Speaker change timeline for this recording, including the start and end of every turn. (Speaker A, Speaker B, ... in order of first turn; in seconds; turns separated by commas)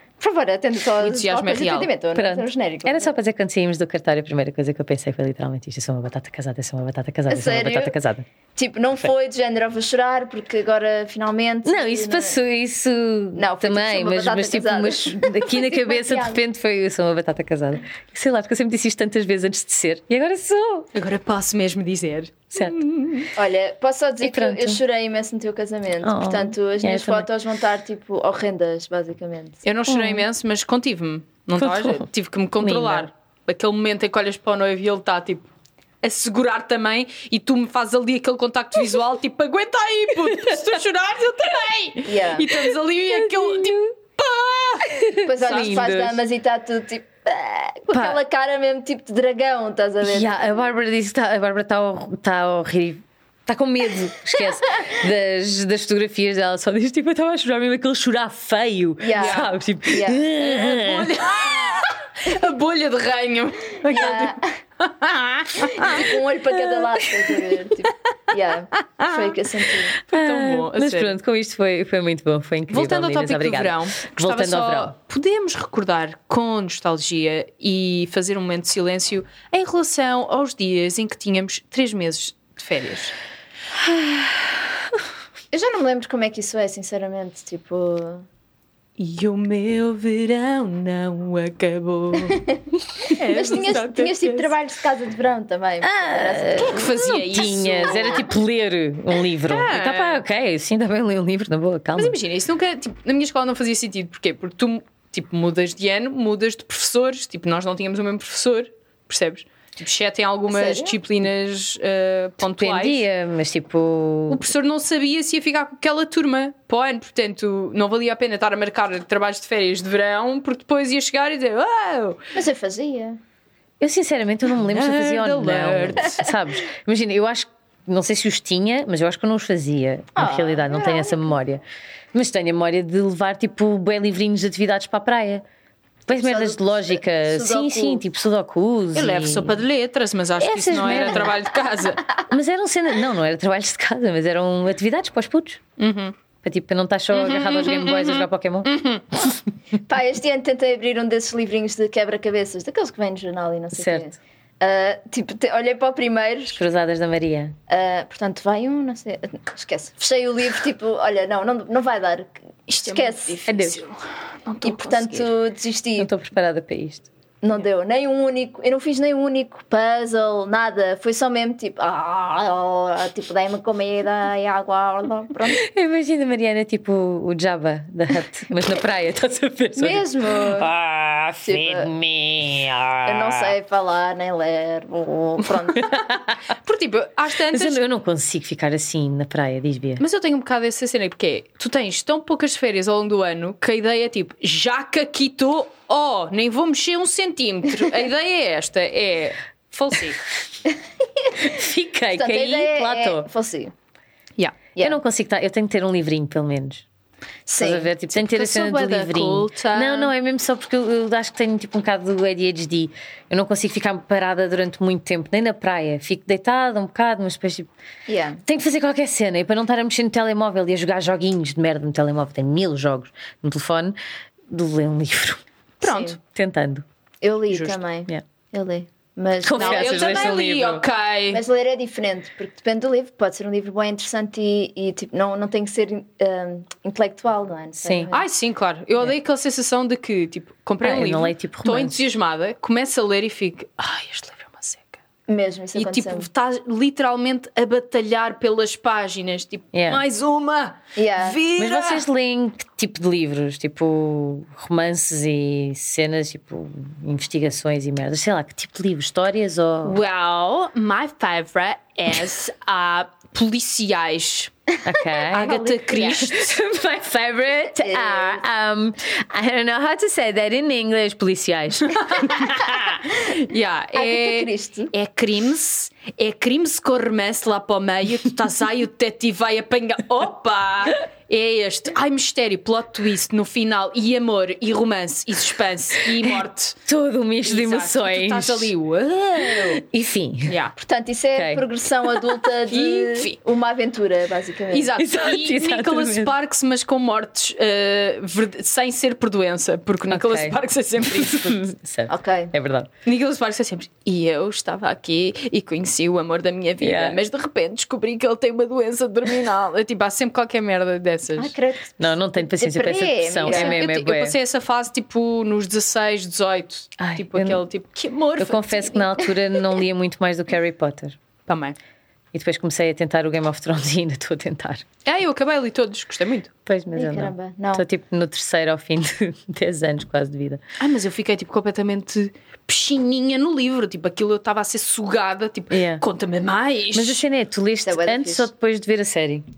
Speaker A: 0.2-3.1, Speaker B: 1.0-1.9, Speaker C: 2.1-8.2, Speaker A: 7.3-7.9, Speaker A: 8.6-12.4, Speaker C: 11.6-20.9, Speaker A: 13.3-16.4, Speaker B: 20.9-23.3, Speaker C: 22.5-22.8, Speaker A: 23.3-29.6, Speaker C: 24.2-24.8, Speaker C: 26.0-27.3, Speaker B: 29.6-35.5, Speaker C: 29.9-30.2, Speaker C: 31.6-32.1, Speaker C: 32.6-33.1, Speaker B: 36.0-45.9, Speaker A: 42.0-42.5, Speaker C: 45.0-46.2, Speaker A: 45.2-50.4, Speaker C: 47.9-48.2, Speaker C: 50.0-61.3, Speaker A: 59.0-60.6, Speaker B: 59.2-59.5, Speaker B: 60.6-66.0, Speaker A: 63.9-64.6, Speaker A: 65.6-70.0, Speaker B: 69.0-69.3, Speaker B: 70.0-71.1, Speaker C: 70.1-74.9, Speaker B: 72.7-83.1, Speaker C: 83.9-84.3, Speaker A: 85.5-88.2, Speaker B: 89.0-92.4, Speaker A: 92.3-96.8, Speaker B: 93.0-94.5, Speaker C: 95.8-102.2, Speaker B: 96.6-98.3, Speaker B: 99.5-100.2, Speaker B: 101.9-113.0, Speaker A: 110.5-111.0, Speaker C: 112.5-114.5, Speaker B: 114.3-122.2, Speaker A: 122.3-123.2, Speaker C: 123.8-131.6, Speaker B: 124.5-126.2, Speaker A: 130.1-131.3, Speaker C: 132.1-135.4, Speaker C: 136.1-139.6, Speaker A: 136.1-138.0, Speaker B: 138.9-142.1, Speaker C: 140.4-141.4, Speaker C: 142.2-145.6, Speaker B: 145.8-146.1, Speaker C: 146.4-148.7, Speaker B: 147.1-149.1, Speaker A: 149.9-156.6, Speaker C: 153.7-154.1, Speaker C: 156.6-157.6, Speaker A: 157.7-163.4, Speaker B: 162.7-165.3, Speaker C: 163.5-163.8, Speaker A: 164.6-166.1, Speaker C: 166.0-167.1, Speaker A: 167.4-175.6, Speaker C: 175.6-183.5, Speaker A: 179.8-180.7, Speaker A: 181.4-181.9, Speaker A: 183.0-186.0, Speaker B: 185.5-186.1, Speaker C: 185.9-186.3, Speaker B: 186.6-187.8, Speaker C: 187.5-190.0, Speaker B: 190.0-200.2, Speaker C: 201.4-203.3, Speaker A: 202.1-203.7, Speaker C: 204.8-206.8, Speaker A: 207.5-207.9, Speaker C: 207.6-217.7, Speaker B: 208.1-210.1, Speaker A: 218.1-218.4, Speaker C: 218.4-223.9, Speaker C: 224.5-225.4, Speaker A: 225.8-226.2, Speaker B: 225.8-226.2, Speaker C: 226.2-226.8, Speaker A: 227.2-230.4, Speaker B: 227.5-227.8, Speaker C: 229.4-230.8, Speaker B: 229.5-231.4, Speaker A: 231.3-238.3, Speaker C: 237.8-238.1, Speaker B: 238.1-245.0, Speaker C: 240.8-242.0, Speaker A: 245.3-246.3, Speaker B: 245.8-252.1, Speaker C: 249.7-250.0, Speaker A: 250.9-251.4, Speaker C: 251.6-260.0, Speaker B: 259.8-264.5, Speaker C: 264.8-272.6, Speaker B: 265.3-266.6, Speaker A: 265.3-266.3, Speaker A: 267.8-268.4, Speaker B: 271.9-286.8, Speaker A: 273.9-274.9, Speaker C: 286.9-288.7, Speaker B: 287.4-289.8, Speaker C: 289.4-290.6, Speaker B: 290.5-290.7, Speaker A: 290.8-294.9, Speaker C: 291.4-291.6, Speaker B: 292.7-293.4, Speaker B: 294.7-301.7, Speaker C: 295.0-296.3, Speaker C: 300.1-302.9, Speaker A: 302.1-302.5, Speaker B: 303.0-311.5, Speaker C: 306.8-307.2, Speaker A: 311.4-313.8, Speaker C: 312.0-314.4, Speaker B: 313.4-319.1, Speaker C: 317.0-317.6, Speaker C: 318.4-321.2, Speaker B: 321.5-321.8, Speaker C: 322.3-324.9, Speaker B: 325.0-326.5, Speaker C: 326.6-330.6, Speaker A: 326.9-327.8, Speaker B: 330.8-337.2, Speaker C: 335.7-336.0, Speaker C: 336.9-339.4, Speaker A: 337.8-338.5